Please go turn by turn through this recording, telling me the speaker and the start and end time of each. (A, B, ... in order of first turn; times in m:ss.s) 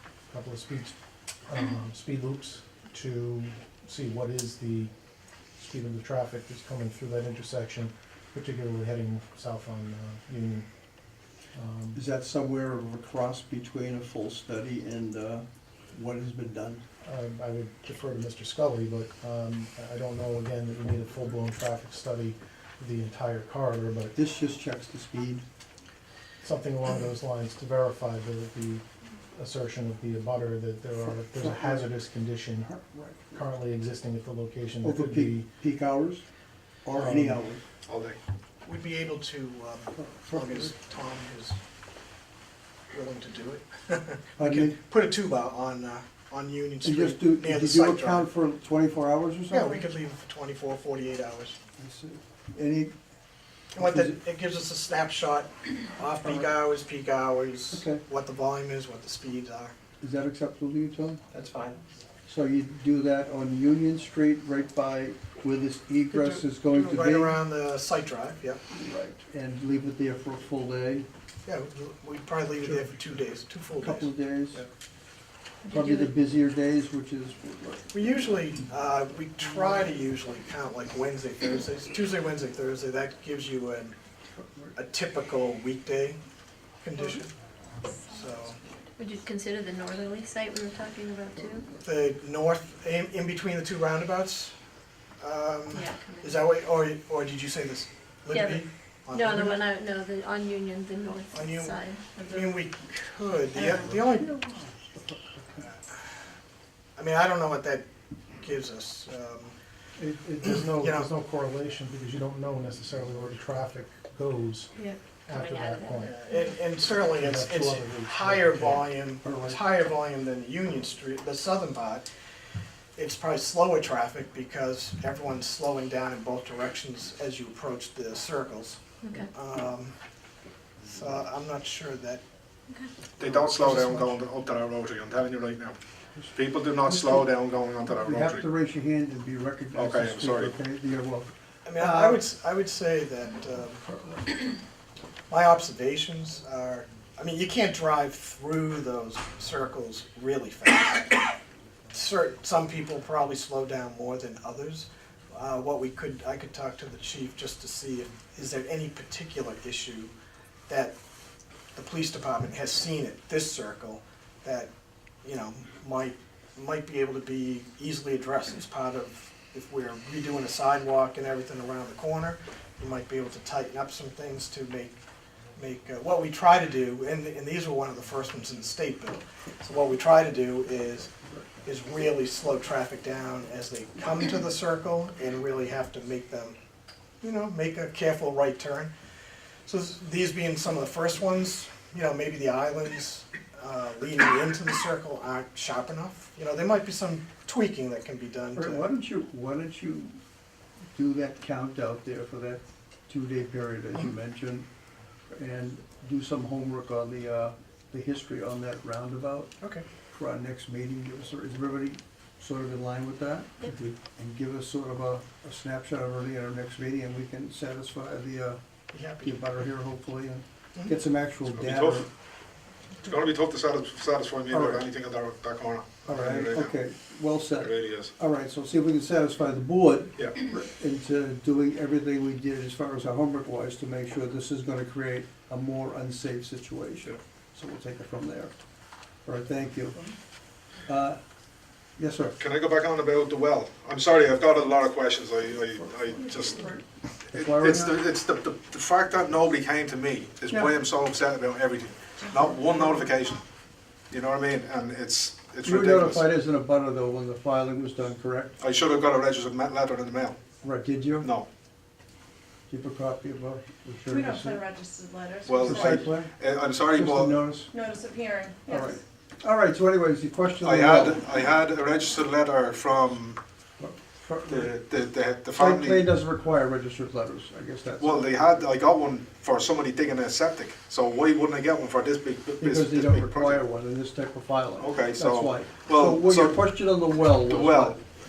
0:00.3-0:01.0 A
0:01.5-0:04.9 A
0:05.6-0:10.7 A
0:11.5-0:12.0 A
0:12.0-0:16.8 B
0:17.0-0:24.2 A
0:24.2-0:25.4 B
0:26.4-0:32.7 A
0:31.3-0:31.9 B
0:32.6-0:33.4 B
0:33.4-0:35.5 A
0:34.8-0:36.2 B
0:36.8-0:37.6 B
0:37.0-0:37.4 A
0:37.9-0:38.2 C
0:38.6-0:41.6 D
0:40.0-0:40.7 B
0:42.9-0:48.3 D
0:44.4-0:44.8 B
0:46.8-0:49.8 B
0:49.5-0:51.6 D
0:51.8-0:52.9 B
0:53.8-0:54.2 B
0:53.8-0:59.8 D
0:57.7-0:58.0 B
1:00.0-1:01.2 B
1:01.3-1:01.8 D
1:02.3-1:07.4 B
1:06.1-1:08.6 D
1:08.7-1:11.1 B
1:11.5-1:14.7 D
1:13.8-1:14.6 B
1:15.6-1:16.1 E
1:15.7-1:17.9 B
1:17.9-1:24.0 D
1:24.4-1:24.8 B
1:24.8-1:26.2 D
1:26.8-1:27.3 D
1:27.0-1:27.2 F
1:27.9-1:28.3 F
1:28.1-1:28.6 D
1:29.0-1:31.7 E
1:31.8-1:34.5 D
1:35.2-1:39.6 D
1:35.7-1:36.4 E
1:38.3-1:42.6 E
1:41.3-1:44.4 D
1:43.5-1:44.0 E
1:43.7-1:45.7 B
1:47.0-1:47.8 D
1:48.4-1:49.5 D
1:50.0-1:54.7 A
1:50.4-1:51.1 D
1:54.8-1:56.5 E
1:55.3-1:56.2 A
1:56.0-2:02.1 D
1:57.1-1:58.9 A
1:59.2-1:59.6 B
2:03.0-2:10.0 D
2:09.0-2:09.3 E
2:10.8-2:12.2 D
2:13.2-2:15.8 C
2:13.5-2:14.0 B
2:16.3-2:18.5 C
2:18.0-2:22.2 B
2:19.7-2:20.6 C
2:21.6-2:24.4 D
2:23.8-2:24.3 B
2:25.3-2:31.4 D
2:31.9-2:40.1 D
2:40.7-2:40.9 D
2:41.7-2:44.7 D
2:45.2-2:55.0 D
2:55.6-3:06.6 D
3:07.2-3:08.9 D
3:09.7-3:18.9 D
3:18.6-3:20.2 B
3:21.0-3:24.7 B
3:25.3-3:29.5 B
3:29.6-3:29.9 D
3:30.1-3:38.6 B
3:38.9-3:39.4 D
3:39.2-3:42.1 B
3:41.5-3:42.0 C
3:43.0-3:46.8 C
3:44.5-3:44.8 B
3:46.1-3:58.6 B
3:47.6-3:48.1 C
3:59.2-4:00.0 B
4:00.9-4:01.2 B
4:02.0-4:02.4 B
4:02.4-4:06.7 C
4:07.3-4:13.4 C
4:07.3-4:08.0 B
4:12.2-4:13.1 F
4:14.1-4:16.3 C
4:15.6-4:18.6 B
4:18.6-4:20.4 C
4:20.6-4:21.3 B
4:21.2-4:21.5 C
4:22.7-4:24.7 B
4:24.1-4:25.9 F
4:25.4-4:27.4 C
4:25.6-4:26.3 B
4:26.9-4:27.7 B
4:27.7-4:29.0 F
4:28.6-4:31.3 B
4:30.6-4:33.4 C
4:33.8-4:34.7 B
4:34.5-4:36.1 C
4:35.6-4:38.3 B
4:38.0-4:43.6 C
4:42.6-4:48.0 B
4:44.8-4:46.6 C
4:47.3-4:48.0 C